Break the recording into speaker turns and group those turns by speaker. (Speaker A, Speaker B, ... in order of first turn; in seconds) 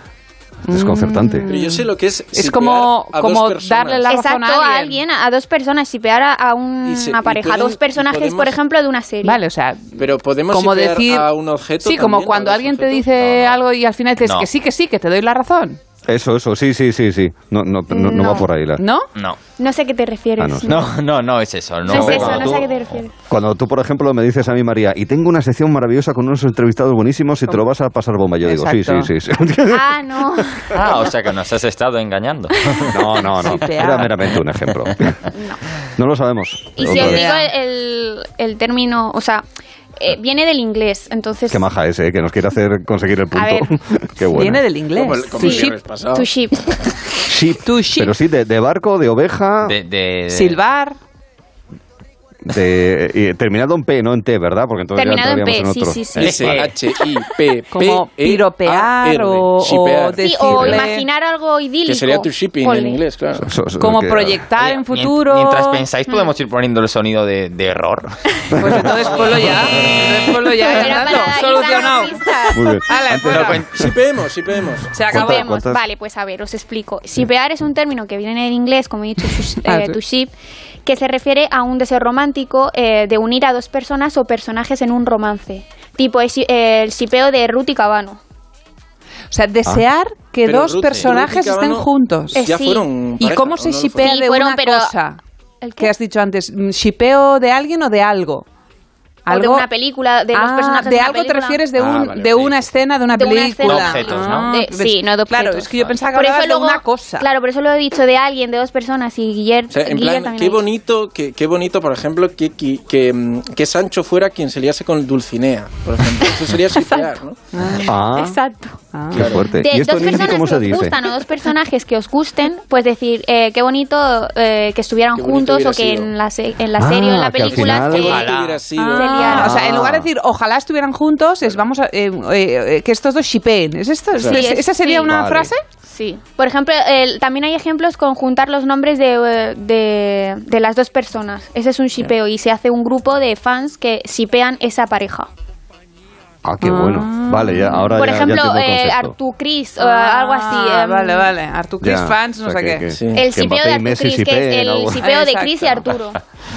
Speaker A: 0.7-5.0, 9.2-11.3, 11.8-15.8, 18.8-19.1, 28.4-29.1, 33.4-34.2, 36.9-37.5, 44.3-45.8, 47.6-48.1, 50.3-51.0, 57.7-61.1, 63.8-65.8, 68.6-72.3, 72.9-73.6, 74.9-75.5, 79.6-80.0, 89.3-92.5, 93.2-95.2, 95.8-98.5, 99.3-99.7, 100.3-107.3, 117.5-117.9, 118.9-119.3, 128.8-135.6, 146.6-148.0, 149.8-152.9, 155.0-155.8
Speaker B: 0.7-1.5, 16.1-18.8, 20.4-20.8, 21.9-22.7, 23.3-30.4, 32.9-35.2, 36.0-37.3, 41.5-44.6, 47.3-49.8, 52.5-56.6, 63.4-64.4, 68.5-69.6, 72.5-73.9, 75.1-75.8, 117.8-118.4, 119.1-121.0, 126.8-128.3, 129.3-130.1, 135.0-135.5, 146.4-149.2, 151.8-155.0
Speaker C: 1.5-4.1, 6.8-8.6, 10.0-13.2, 45.0-46.3, 56.2-60.2, 61.9-63.5, 73.3-75.0, 90.4-94.2, 101.8-102.6, 109.7-117.4, 119.2-119.5, 125.2-126.1, 127.7-129.4, 152.9-153.3
Speaker D: 4.1-9.4, 17.9-18.5, 19.6-20.8, 21.9-23.1, 29.7-31.1, 35.3-35.6, 36.8-39.5, 40.0-41.6, 43.3-43.7, 45.4-46.7, 55.0-56.6, 60.2-63.0, 70.6-72.8, 75.1-80.3, 80.8-88.2, 92.4-92.9, 94.0-94.9, 95.6-95.9, 99.3-101.6, 103.2-110.7, 116.7-117.2, 117.8-118.8, 119.6-128.3, 128.9-129.7, 134.2-135.1, 135.9-145.3, 147.9-151.3, 153.2-156.2
Speaker E: 13.2-13.5, 14.2-14.5, 20.7-23.0, 30.7-33.0, 49.6-50.6, 56.2-56.7, 64.6-68.2, 73.3-73.7, 103.6-104.5, 127.9-128.6